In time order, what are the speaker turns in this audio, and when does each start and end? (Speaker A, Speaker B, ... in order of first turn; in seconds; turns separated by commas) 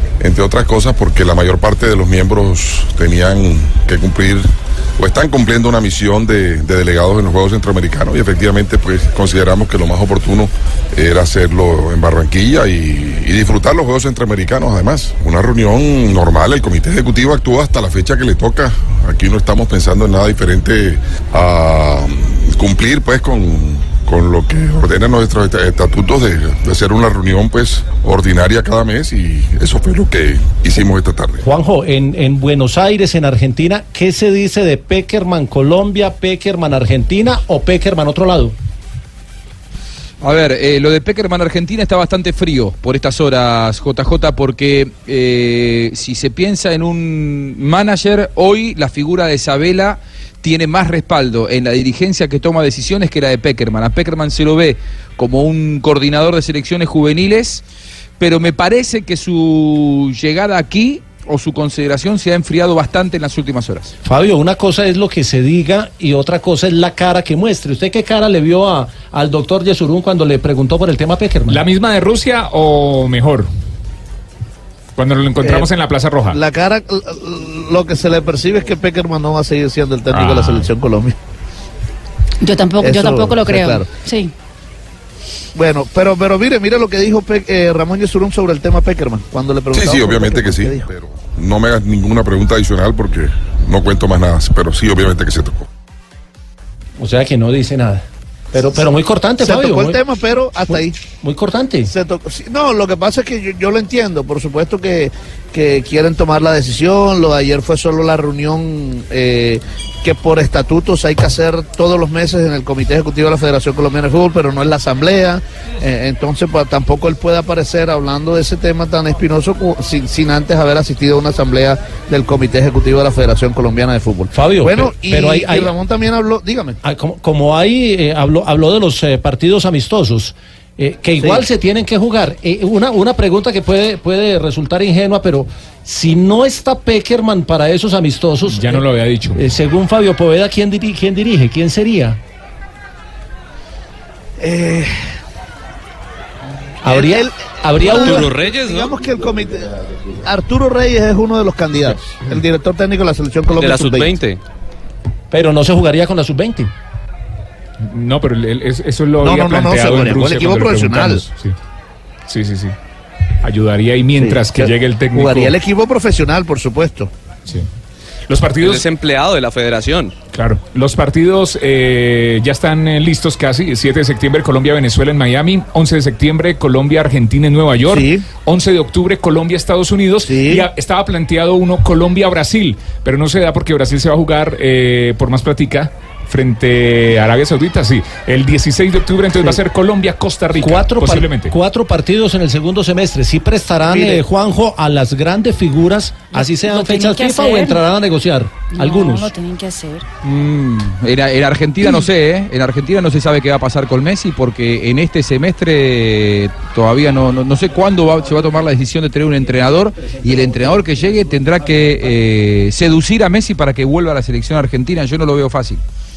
Speaker A: 0.2-31.4, Speaker B: 31.4-38.5, Speaker C: 40.2-57.6, Speaker C: 58.2-63.9, Speaker B: 64.0-71.6, Speaker D: 71.5-73.5, Speaker D: 75.0-76.4, Speaker E: 75.4-75.7, Speaker E: 76.3-81.1, Speaker D: 80.1-80.7, Speaker F: 82.4-84.3, Speaker E: 82.8-83.8, Speaker E: 85.5-90.9, Speaker A: 89.7-95.6, Speaker B: 97.0-100.0, Speaker E: 99.4-100.9, Speaker B: 100.7-101.9, Speaker E: 101.9-126.8, Speaker B: 124.3-125.7, Speaker B: 126.8-138.8, Speaker E: 131.2-131.4, Speaker D: 138.5-139.4, Speaker B: 139.3-142.2, Speaker E: 144.4-144.9, Speaker B: 146.8-148.3, Speaker E: 146.8-149.7, Speaker G: 147.8-148.9, Speaker E: 150.2-154.2, Speaker G: 153.5-154.4, Speaker B: 155.3-156.7, Speaker D: 157.9-161.5, Speaker E: 159.2-161.2, Speaker D: 162.3-162.7, Speaker D: 163.4-165.5, Speaker E: 164.2-167.1, Speaker D: 168.3-168.8, Speaker G: 168.6-170.1, Speaker D: 170.3-191.5, Speaker E: 177.9-178.2, Speaker E: 180.2-180.7, Speaker B: 190.6-199.3, Speaker E: 193.8-194.2, Speaker F: 196.3-197.8, Speaker F: 198.7-200.1, Speaker C: 200.2-215.8